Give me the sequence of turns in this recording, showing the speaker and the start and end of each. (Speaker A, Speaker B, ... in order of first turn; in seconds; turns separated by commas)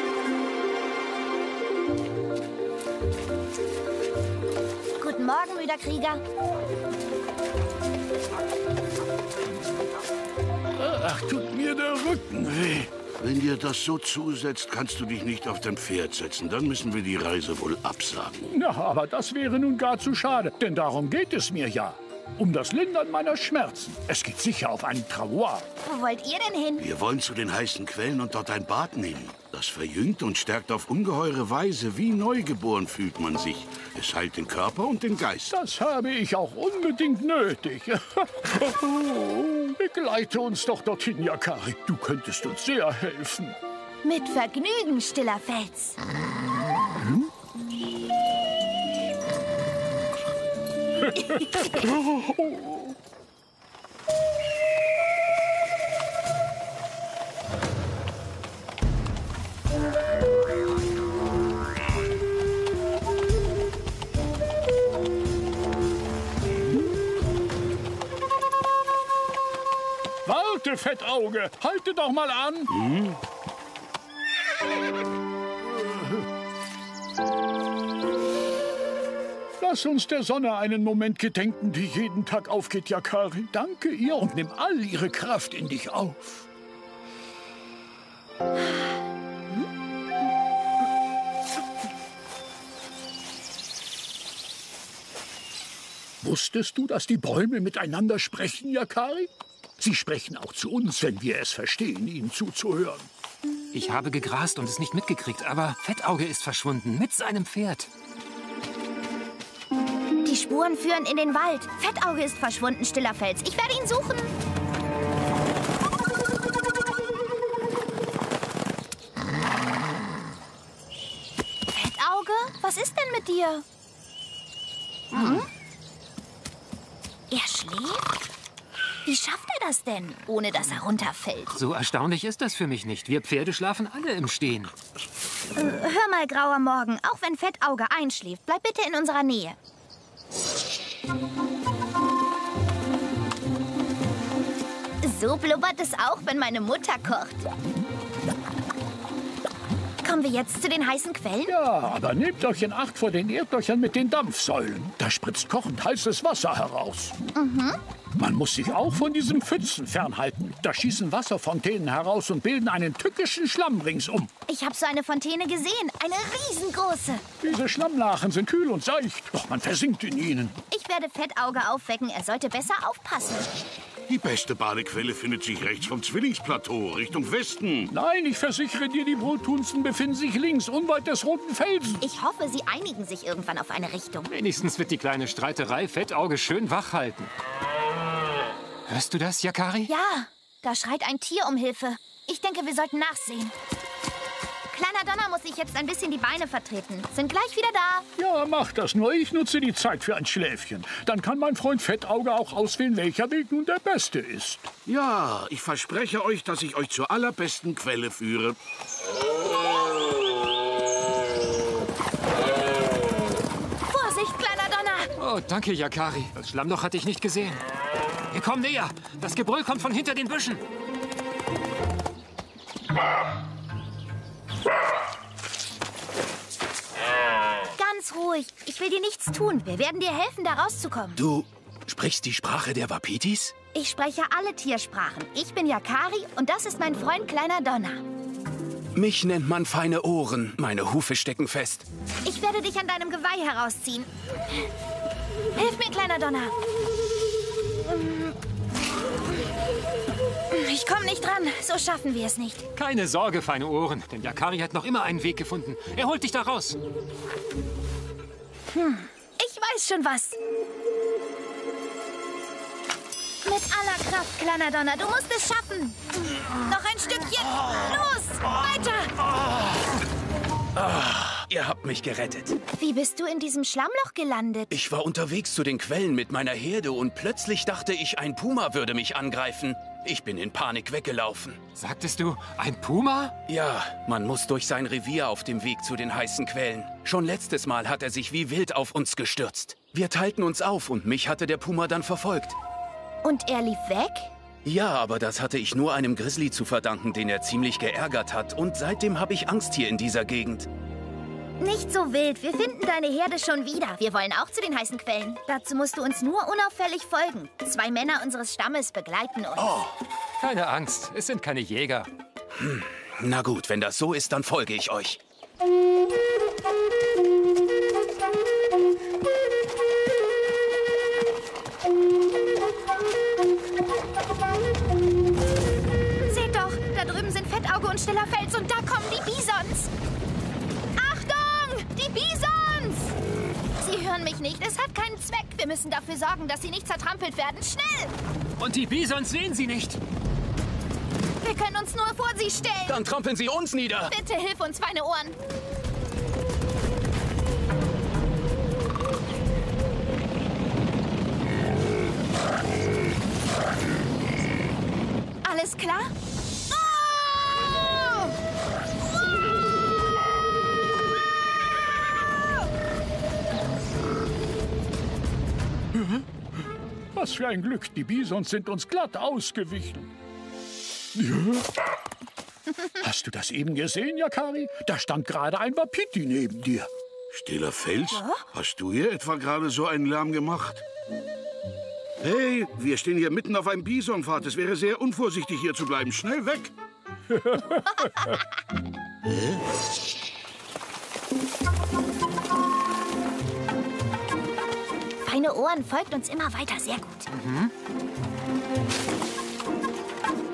Speaker A: 5.0-6.2, Speaker B: 10.8-12.4, Speaker C: 12.4-18.5, Speaker B: 18.5-25.6, Speaker A: 25.8-26.8, Speaker C: 26.8-35.5, Speaker B: 35.5-43.5, Speaker A: 44.0-46.0, Speaker B: 51.9-52.8, Speaker B: 70.2-72.7, Speaker C: 72.7-73.1, Speaker B: 79.6-86.5, Speaker B: 96.2-103.1, Speaker D: 103.7-107.9, Speaker A: 110.2-114.3, Speaker A: 121.7-123.6, Speaker D: 125.1-125.4, Speaker A: 125.1-125.5, Speaker A: 127.3-128.1, Speaker A: 129.0-131.6, Speaker D: 131.5-134.7, Speaker A: 135.5-139.6, Speaker A: 145.0-147.5, Speaker A: 150.0-151.5, Speaker B: 151.4-157.1, Speaker A: 157.3-157.8, Speaker B: 158.2-164.3, Speaker A: 164.5-167.2, Speaker B: 167.4-170.6, Speaker A: 170.7-173.5, Speaker C: 174.1-177.9, Speaker B: 177.9-182.0, Speaker A: 182.0-184.3, Speaker D: 184.3-187.3, Speaker D: 188.9-189.9, Speaker A: 189.9-193.5, Speaker A: 194.7-198.1, Speaker B: 198.2-204.7, Speaker C: 204.8-208.6, Speaker A: 213.9-215.1, Speaker D: 215.2-217.6, Speaker D: 218.3-220.6, Speaker A: 227.8-231.2, Speaker E: 231.2-233.5, Speaker A: 233.7-238.0, Speaker E: 238.9-241.8, Speaker A: 242.2-244.1, Speaker A: 245.5-246.5, Speaker A: 248.0-248.2, Speaker A: 250.5-252.7, Speaker D: 252.7-256.8, Speaker A: 258.7-260.4, Speaker A: 263.4-266.1, Speaker A: 266.6-269.1, Speaker E: 270.7-272.6, Speaker A: 272.7-274.7, Speaker E: 274.7-281.6, Speaker D: 281.8-283.3, Speaker E: 283.5-292.6, Speaker A: 293.2-294.3, Speaker E: 294.6-300.7, Speaker A: 301.6-309.8, Speaker E: 309.6-309.9, Speaker D: 310.4-312.1, Speaker E: 312.6-315.2, Speaker A: 326.2-329.9, Speaker A: 330.9-333.1, Speaker A: 333.8-338.1, Speaker D: 338.6-340.0, Speaker A: 341.4-343.0, Speaker E: 342.9-344.1, Speaker A: 344.1-345.4, Speaker A: 355.4-356.1, Speaker A: 356.8-357.0, Speaker B: 367.1-370.1, Speaker B: 371.1-371.7, Speaker B: 373.0-376.9, Speaker C: 377.3-380.8, Speaker C: 382.2-386.7, Speaker A: 395.2-397.3, Speaker D: 397.3-397.7